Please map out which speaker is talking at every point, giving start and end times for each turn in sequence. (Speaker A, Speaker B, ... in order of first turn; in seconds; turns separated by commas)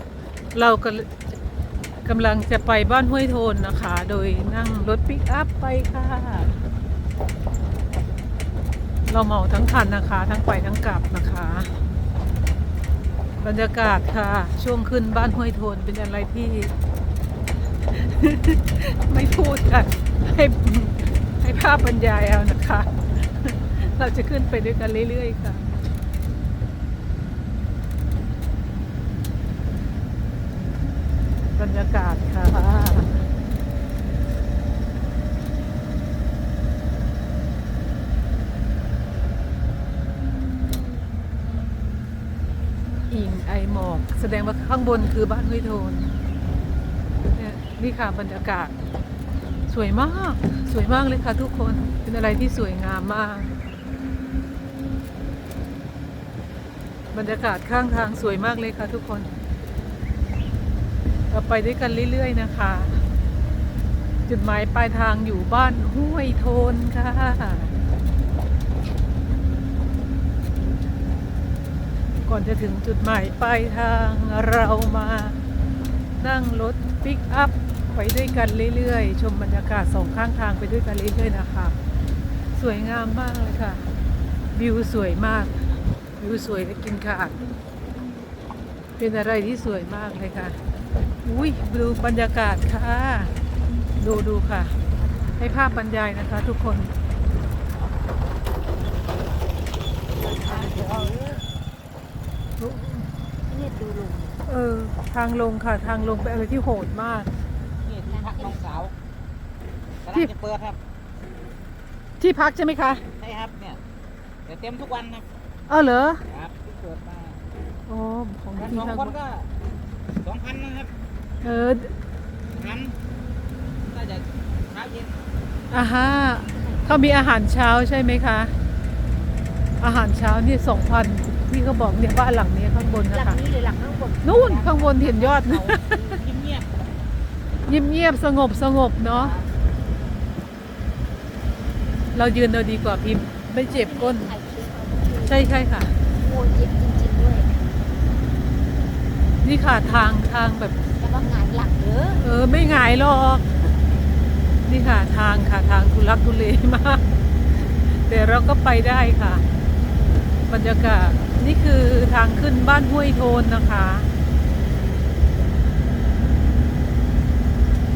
Speaker A: 0.5-1.2, Speaker A: 2.0-6.6, Speaker A: 9.1-11.7, Speaker A: 13.4-16.7, Speaker A: 17.9-25.7, Speaker A: 31.6-33.2, Speaker A: 43.1-46.1, Speaker A: 47.3-48.7, Speaker A: 49.7-53.5, Speaker A: 57.1-59.3, Speaker A: 61.3-63.0, Speaker A: 64.3-67.7, Speaker A: 72.2-75.4, Speaker A: 76.2-81.8, Speaker A: 82.6-83.9, Speaker A: 84.5-85.7, Speaker A: 86.2-87.4, Speaker A: 89.0-90.6, Speaker A: 91.2-93.3, Speaker A: 94.0-94.8, Speaker A: 95.4-96.9, Speaker B: 100.2-101.4, Speaker C: 100.4-101.4, Speaker A: 102.6-103.0, Speaker B: 103.5-104.4, Speaker A: 104.5-107.3, Speaker C: 107.8-108.9, Speaker B: 108.1-108.7, Speaker C: 110.0-110.8, Speaker A: 112.2-113.0, Speaker C: 113.2-113.8, Speaker C: 114.5-115.2, Speaker A: 115.7-116.2, Speaker C: 116.3-117.4, Speaker A: 117.9-119.2, Speaker C: 118.6-119.5, Speaker C: 120.2-120.9, Speaker A: 121.4-121.9, Speaker C: 122.5-123.0, Speaker C: 123.8-125.2, Speaker A: 125.7-128.5, Speaker B: 126.5-127.1, Speaker A: 129.8-133.4, Speaker B: 133.1-135.5, Speaker A: 134.2-136.2, Speaker C: 134.7-136.7, Speaker A: 137.7-139.3, Speaker C: 139.2-139.5, Speaker A: 142.1-144.3, Speaker B: 143.7-145.5, Speaker A: 145.2-146.0, Speaker B: 146.1-147.6, Speaker A: 149.4-150.8, Speaker B: 151.0-152.2, Speaker A: 152.2-153.7, Speaker A: 154.7-157.1, Speaker A: 157.9-159.4, Speaker A: 160.5-164.1